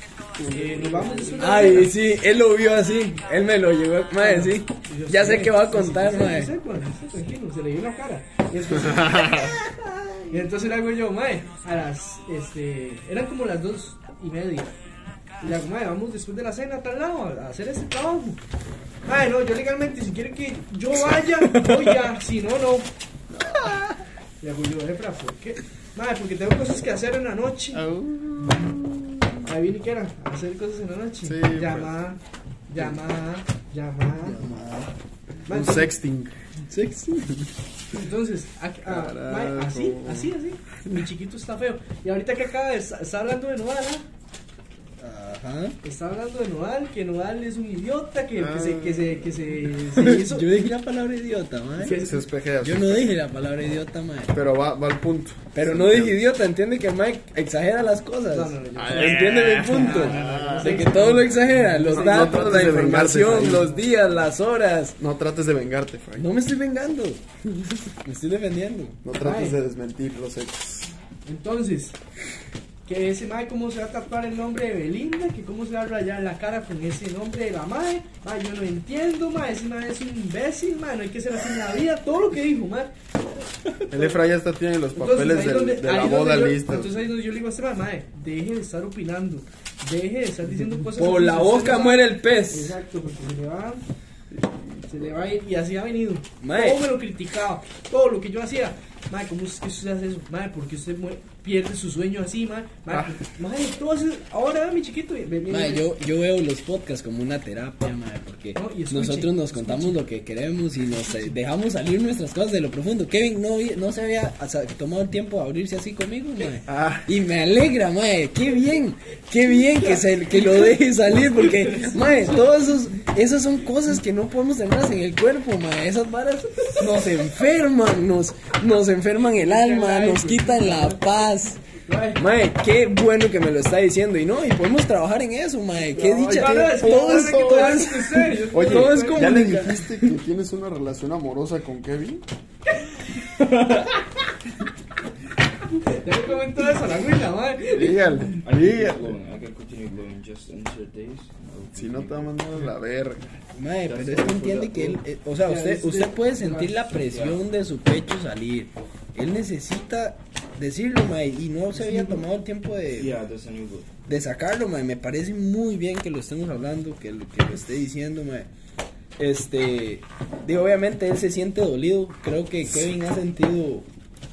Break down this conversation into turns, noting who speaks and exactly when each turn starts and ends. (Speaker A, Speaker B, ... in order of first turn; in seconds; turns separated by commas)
Speaker A: 0.3-1.6, Speaker B: 0.5-1.9, Speaker C: 1.4-6.5, Speaker B: 4.2-9.6, Speaker A: 8.8-9.5, Speaker B: 10.3-14.8, Speaker B: 15.4-18.4, Speaker B: 19.1-22.9, Speaker A: 23.3-23.8, Speaker B: 24.4-27.9, Speaker A: 27.7-29.4, Speaker B: 29.4-34.4, Speaker A: 31.2-32.0, Speaker C: 34.2-34.9, Speaker B: 35.5-35.9, Speaker A: 35.5-36.3, Speaker C: 36.7-37.5, Speaker B: 37.9-44.0, Speaker A: 38.9-40.3, Speaker C: 45.0-45.8, Speaker B: 45.8-50.5, Speaker A: 48.4-49.5, Speaker C: 49.9-52.0, Speaker B: 51.8-52.2, Speaker A: 51.8-53.1, Speaker C: 52.6-54.3, Speaker A: 54.3-56.2, Speaker C: 55.5-65.0, Speaker B: 58.3-63.9, Speaker A: 58.8-61.0, Speaker A: 61.9-63.7, Speaker A: 65.0-66.3, Speaker C: 66.2-69.0, Speaker A: 69.0-70.9, Speaker B: 69.2-69.6, Speaker B: 71.2-72.0, Speaker B: 72.8-82.9, Speaker A: 83.9-87.0, Speaker B: 83.9-84.2, Speaker B: 84.9-93.8, Speaker C: 90.8-92.8, Speaker A: 94.3-95.3, Speaker B: 94.9-105.9, Speaker C: 96.4-96.8, Speaker A: 102.9-103.1, Speaker C: 105.5-131.6, Speaker B: 108.5-110.0, Speaker B: 110.9-111.4, Speaker A: 116.7-117.1, Speaker B: 119.8-120.7, Speaker B: 121.3-122.4, Speaker B: 129.2-132.2, Speaker C: 132.2-140.1, Speaker A: 135.9-142.2, Speaker B: 136.3-139.4, Speaker C: 143.4-143.9, Speaker B: 145.7-148.2, Speaker A: 147.7-149.2, Speaker D: 148.4-152.7, Speaker A: 151.7-153.3, Speaker C: 153.5-163.1, Speaker D: 153.9-155.0, Speaker B: 155.4-156.8, Speaker D: 156.9-157.4, Speaker B: 161.7-162.2, Speaker D: 162.9-163.9, Speaker C: 164.1-168.5, Speaker C: 169.2-173.9